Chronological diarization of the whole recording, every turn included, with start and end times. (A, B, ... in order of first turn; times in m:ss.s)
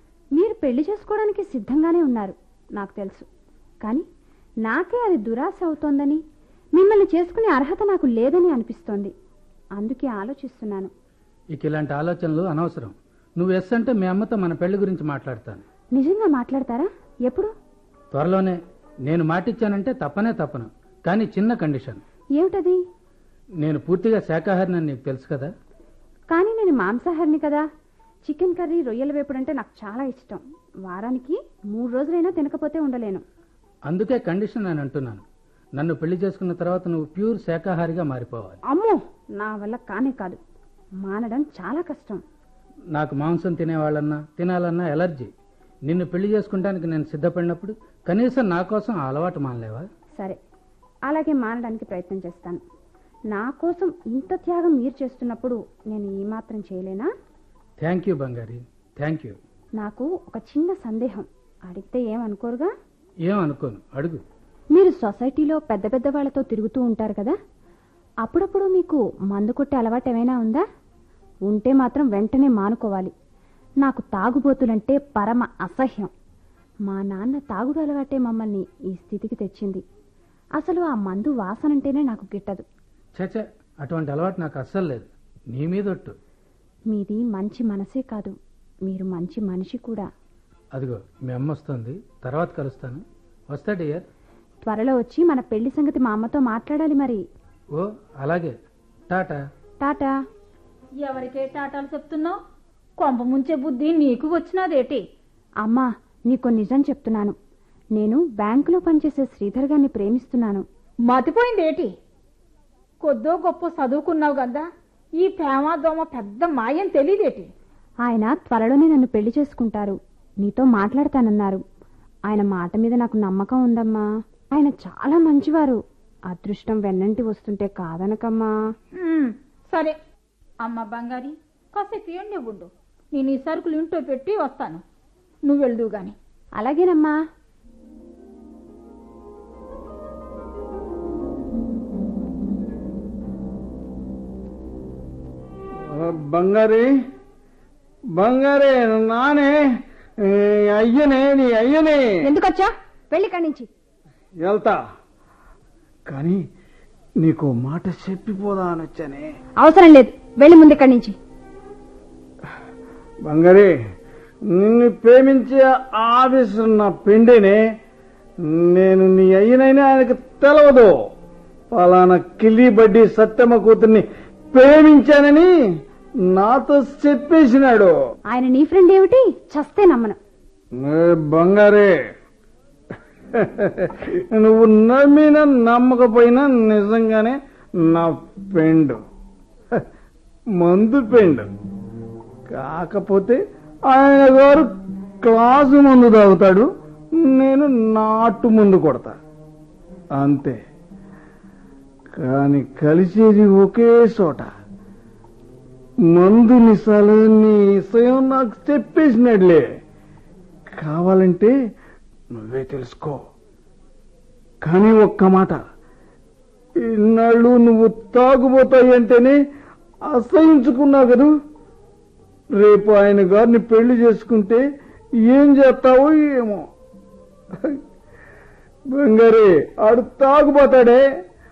0:00.4-0:03.3 A
0:04.6-0:06.2 A
0:06.8-0:09.1 A
0:09.8-0:10.9 A
0:11.5-0:15.6 B
0:16.0-0:17.5 A
0:18.1-0:22.0 B
0:22.4-0:22.8 A
0:23.6-0:25.5 B
0:26.3-0:27.6 A
0:28.3-0:33.2 A
0:33.9-0:35.2 B
0:35.8-0:38.6 B
0:38.7-0:40.4 A
0:41.0-0:42.2 A
0:42.9-0:45.3 B
0:45.9-0:49.9 B
0:51.1-0:52.6 A
0:53.3-0:57.1 A
0:57.8-0:59.4 B
0:59.8-1:02.7 A
1:03.3-1:04.2 B
1:04.7-1:07.4 A
1:08.2-1:10.6 A
1:11.5-1:13.1 A
1:13.8-1:16.1 A
1:16.9-1:19.8 A
1:20.6-1:22.6 A
1:23.2-1:26.2 B
1:26.9-1:28.3 A
1:28.9-1:30.1 A
1:30.8-1:34.1 B
1:34.6-1:37.2 A
1:37.8-1:38.6 B
1:39.1-1:39.4 B
1:39.8-1:40.1 A
1:41.0-1:42.4 C
1:43.0-1:45.0 C
1:45.6-1:47.4 A
1:48.0-1:50.6 A
1:51.1-1:51.9 C
1:53.0-1:54.7 C
1:55.2-1:57.5 C
1:58.0-2:01.6 A
2:02.3-2:08.5 A
2:09.0-2:10.0 C
2:10.6-2:14.8 C
2:15.5-2:16.2 C
2:16.6-2:17.1 A
2:25.9-2:26.9 D
2:28.2-2:29.6 D
2:30.2-2:32.0 D
2:32.2-2:33.7 A
2:34.4-2:34.8 D
2:36.1-2:36.4 D
2:37.2-2:39.3 D
2:39.6-2:41.2 A
2:43.2-2:43.7 D
2:44.5-2:47.6 D
2:48.5-2:50.9 D
2:51.8-2:55.5 D
2:56.3-2:57.9 D
2:58.3-3:00.2 A
3:00.8-3:01.9 D
3:03.3-3:09.0 D
3:10.6-3:11.5 D
3:12.5-3:14.7 D
3:15.2-3:16.7 D
3:17.2-3:19.1 D
3:20.2-3:20.6 D
3:22.2-3:24.5 D
3:26.1-3:29.6 D
3:30.8-3:31.5 D
3:32.4-3:33.2 D
3:34.6-3:35.6 D
3:36.8-3:39.4 D
3:40.1-3:41.3 D
3:42.6-3:44.6 D
3:45.3-3:46.6 D
3:48.9-3:51.0 D